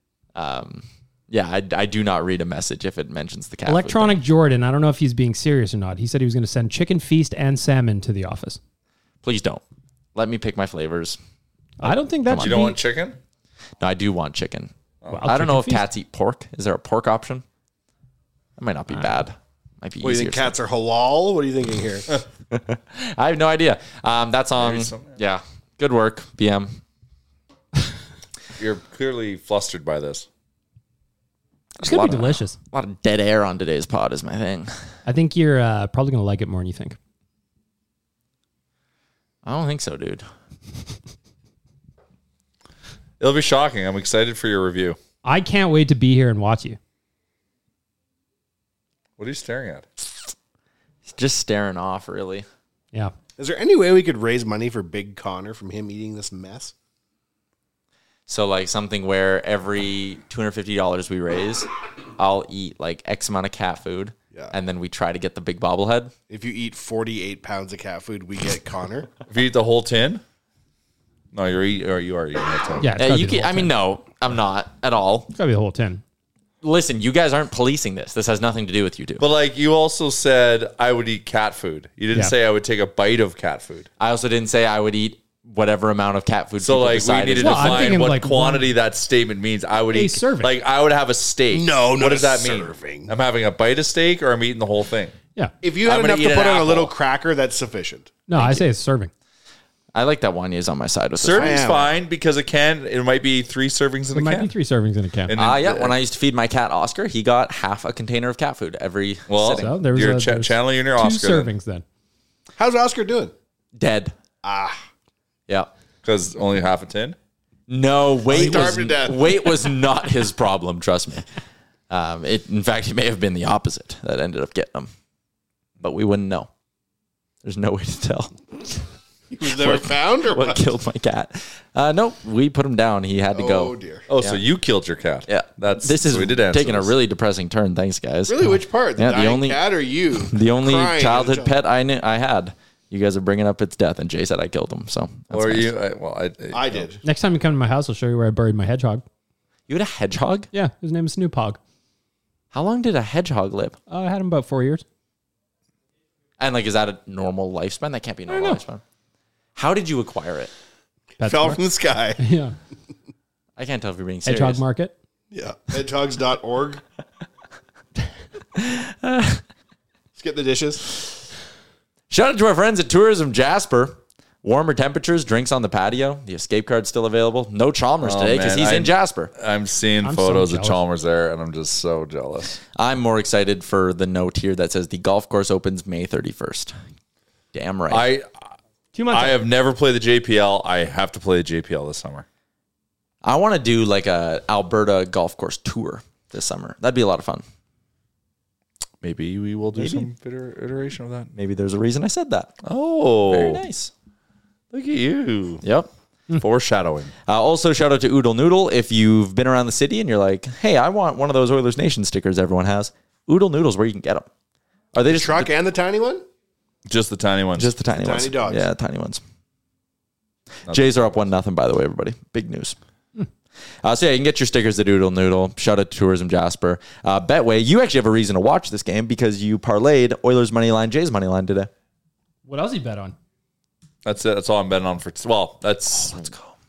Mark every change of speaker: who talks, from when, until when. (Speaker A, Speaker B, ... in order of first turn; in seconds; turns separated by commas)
Speaker A: 0.3-4.2, Speaker B: 3.6-8.6, Speaker A: 9.2-9.6, Speaker A: 10.1-11.2, Speaker B: 11.8-12.8, Speaker A: 11.8-12.7, Speaker C: 12.4-13.2, Speaker A: 13.8-14.7, Speaker B: 15.1-15.8, Speaker A: 15.2-17.4, Speaker A: 18.6-20.5, Speaker D: 20.0-22.1, Speaker A: 22.5-26.8, Speaker C: 24.6-25.2, Speaker C: 28.6-30.3, Speaker B: 31.8-32.6, Speaker A: 31.8-34.7, Speaker B: 35.0-37.0, Speaker A: 39.4-40.2, Speaker C: 43.2-45.0, Speaker B: 45.2-46.8, Speaker C: 49.2-49.8, Speaker A: 51.0-52.5, Speaker D: 53.4-56.7, Speaker A: 58.3-66.1, Speaker D: 66.3-69.1, Speaker C: 69.3-70.2, Speaker C: 71.3-72.9, Speaker B: 72.8-73.7, Speaker A: 73.0-75.3, Speaker B: 75.3-76.0, Speaker A: 76.6-79.2, Speaker C: 79.2-83.9, Speaker A: 84.0-88.0, Speaker C: 86.6-95.1, Speaker B: 87.4-88.7, Speaker B: 89.9-90.5, Speaker D: 91.5-93.1, Speaker D: 95.6-98.2, Speaker C: 95.8-96.9, Speaker B: 98.3-99.1, Speaker A: 98.3-98.6, Speaker A: 99.9-101.6, Speaker C: 101.2-104.5, Speaker D: 101.3-101.9, Speaker B: 104.1-105.3, Speaker C: 105.3-105.9, Speaker A: 105.3-109.7, Speaker C: 109.3-111.5, Speaker B: 109.4-111.8, Speaker D: 112.5-113.3, Speaker A: 113.8-114.1, Speaker D: 114.4-114.8, Speaker C: 116.0-117.2, Speaker A: 117.7-121.2, Speaker D: 118.3-119.3, Speaker A: 121.9-124.9, Speaker A: 125.8-126.5, Speaker A: 127.4-128.3, Speaker D: 129.3-130.6, Speaker A: 129.5-134.4, Speaker D: 133.3-134.1, Speaker C: 134.1-136.9, Speaker A: 135.3-139.6, Speaker D: 138.3-141.5, Speaker A: 140.3-145.7, Speaker C: 145.3-146.8, Speaker D: 146.5-147.0, Speaker B: 147.0-149.0, Speaker A: 149.7-150.5, Speaker B: 150.5-151.6, Speaker A: 152.5-153.8, Speaker B: 153.9-154.8, Speaker A: 156.4-158.8, Speaker B: 158.3-158.6, Speaker A: 159.6-160.5, Speaker B: 161.2-161.6, Speaker D: 161.2-162.2, Speaker B: 162.2-162.5, Speaker A: 163.6-164.6, Speaker B: 164.2-164.9, Speaker D: 165.3-166.8, Speaker A: 168.6-169.4, Speaker D: 170.1-170.8, Speaker A: 172.1-179.3, Speaker C: 178.0-182.6, Speaker B: 180.0-180.8, Speaker A: 182.8-186.7, Speaker A: 187.5-188.1, Speaker C: 187.9-188.3, Speaker B: 188.9-189.4, Speaker C: 189.1-192.2, Speaker A: 193.2-197.4, Speaker C: 199.0-201.3, Speaker A: 199.8-200.1, Speaker A: 201.3-202.5, Speaker C: 202.6-203.6, Speaker A: 203.3-203.9, Speaker C: 204.7-205.6, Speaker A: 205.6-205.9, Speaker C: 206.3-207.1, Speaker A: 207.2-214.3, Speaker A: 214.9-215.5, Speaker D: 215.0-216.2, Speaker C: 216.9-217.7, Speaker A: 217.6-219.2, Speaker D: 217.9-218.7, Speaker C: 220.7-221.2, Speaker A: 220.7-222.8, Speaker A: 223.8-231.7, Speaker B: 232.4-233.2, Speaker C: 234.0-236.3, Speaker A: 236.0-236.4